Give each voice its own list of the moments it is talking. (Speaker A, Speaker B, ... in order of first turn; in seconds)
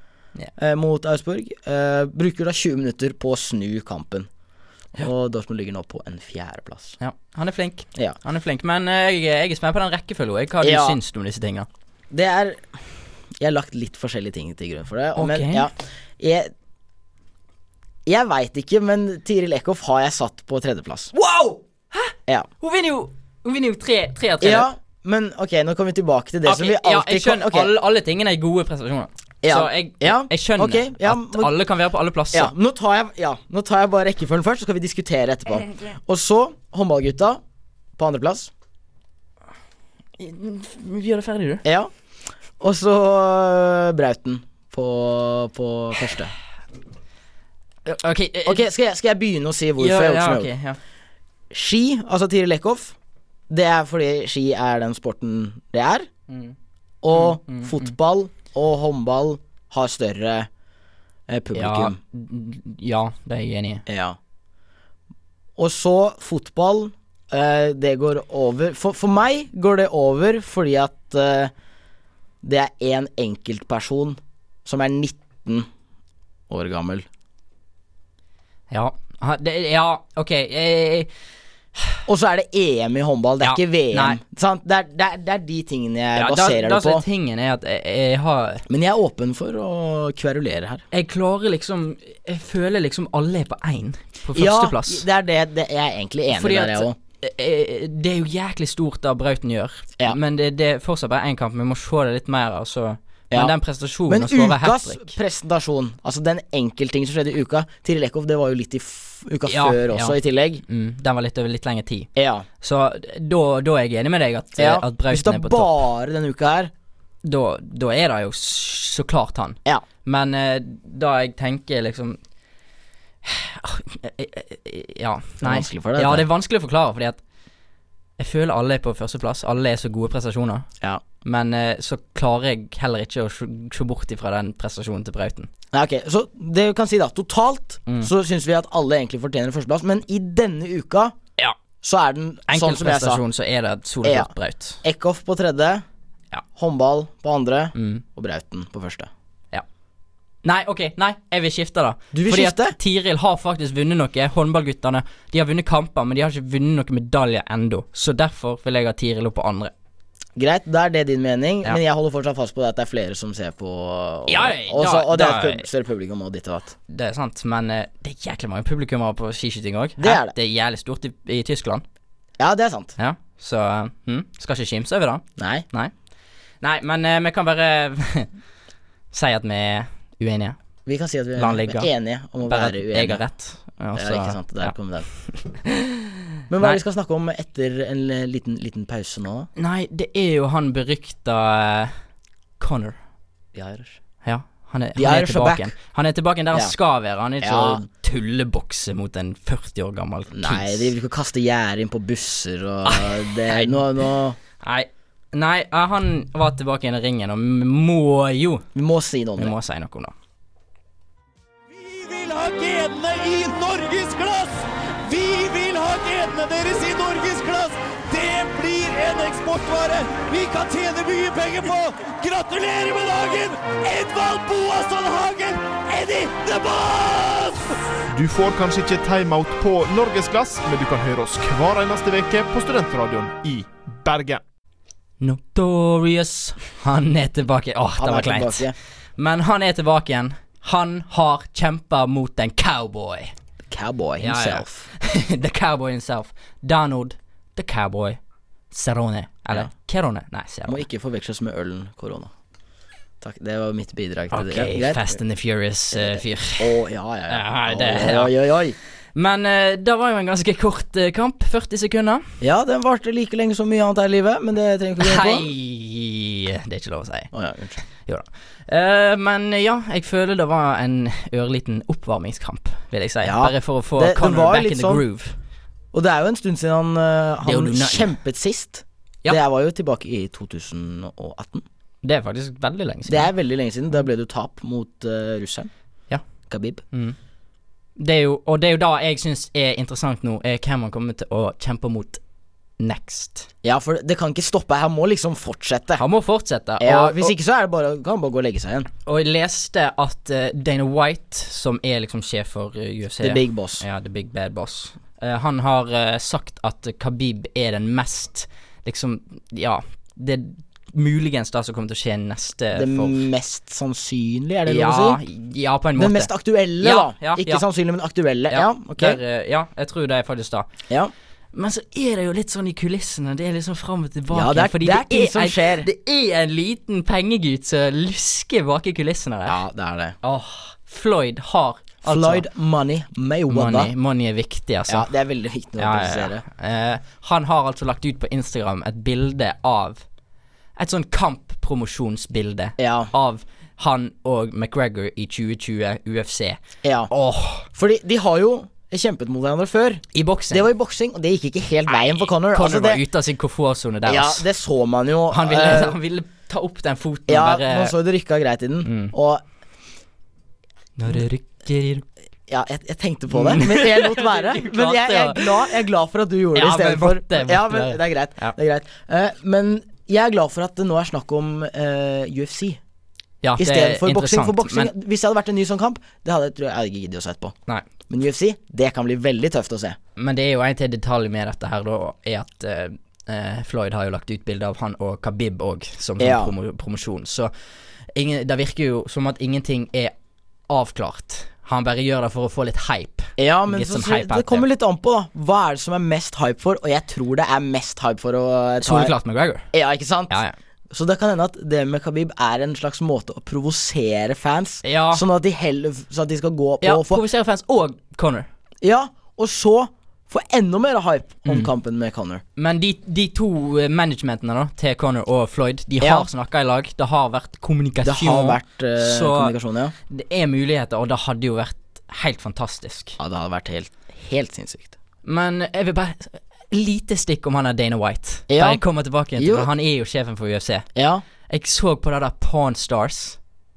Speaker A: 0.6-4.3, 5.0-7.0, 10.6-11.0, 12.1-12.8, 13.4-16.5, 18.1-21.1, 24.4-27.7, 29.4-31.6, 32.3-37.4, 38.0-38.5, 41.6-41.9, 42.6-46.3, 48.5-50.5, 51.5-53.0, 53.5-56.1, 57.0-60.5, 61.3-62.0, 63.9-64.2, 65.6-71.5, 72.4-75.7, 76.5-77.1, 82.1-87.0, 88.7-90.8, 94.3-97.0, 104.1-110.6, 112.2-112.5, 114.6-116.7, 125.4-126.3, 135.7-141.2, 141.8-143.2, 144.0-144.3, 144.8-145.8, 146.6-149.1, 152.1-152.8, 160.4-166.8, 170.0-170.3, 172.4-173.0, 175.4-175.7, 180.9-183.2, 183.9-185.1, 186.5-189.5, 193.5-194.0, 195.0-195.7, 197.4-197.8, 200.3-204.4, 208.8-209.5, 238.0-238.8, 243.7-244.9, 250.7-252.3, 253.2-255.2, 255.9-258.8, 262.4-265.5, 267.3-267.8, 273.2-275.0, 275.9-281.7, 283.1-285.7, 286.5-286.8, 293.6-296.0, 296.8-298.9, 303.2-303.8, 312.7-315.2, 316.0-319.2, 324.3-325.9, 329.5-330.2, 332.0-333.9, 334.9-336.4, 342.8-343.1, 346.8-347.1, 347.7-353.0, 354.1-356.0, 357.3-359.4, 362.5-372.8, 373.6-377.6, 378.1-380.0, 386.2-386.5, 393.4-399.1, 399.7-400.4, 400.9-407.2, 408.8-412.4, 416.0-416.3, 418.0-419.9, 423.2-424.9, 428.5-428.8, 429.4-429.7, 430.9-431.2
Speaker B: 7.0-11.7, 15.2-15.7, 21.1-24.7, 26.4-32.5, 40.2-41.6, 47.9-48.6, 49.8-50.8, 56.3-56.6, 57.1-58.0, 61.5-63.9, 78.7-81.1, 83.4-84.2, 86.2-88.6, 90.9-95.0, 96.3-105.2, 109.5-112.1, 112.6-115.7, 117.2-122.2, 123.2-127.2, 128.2-130.7, 131.2-135.5, 142.5-144.8, 147.8-148.0, 150.4-159.7, 164.3-165.7, 166.9-171.8, 173.0-175.9, 176.6-178.3, 179.1-180.6, 181.4-181.9, 182.4-185.8, 189.6-191.9, 192.6-193.0, 194.2-200.9, 202.8-203.8, 204.6-208.7, 209.4-210.1, 235.2-243.3, 244.2-248.2, 248.7-250.8, 254.3-256.7, 257.3-258.3, 259.1-262.2, 265.0-267.3, 267.9-275.4, 277.4-278.1, 282.0-283.3, 288.0-292.2, 292.8-293.5, 296.0-297.3, 299.1-313.2, 314.7-317.6, 318.5-320.7, 321.5-329.6, 330.2-332.5, 333.5-335.1, 335.8-340.0, 340.8-347.7, 350.1-350.7, 351.9-354.5, 355.3-357.9, 358.9-359.1, 361.0-362.0, 363.3-365.7, 366.6-368.6, 373.4-374.9, 380.2-387.5, 388.2-390.1, 390.7-394.7, 398.8-399.7, 400.3-400.6, 404.8-405.2, 406.8-408.5, 412.6-419.5, 420.1-423.2, 425.2-430.9, 431.5-433.4
Speaker C: 211.7-227.7
Speaker D: 228.1-234.4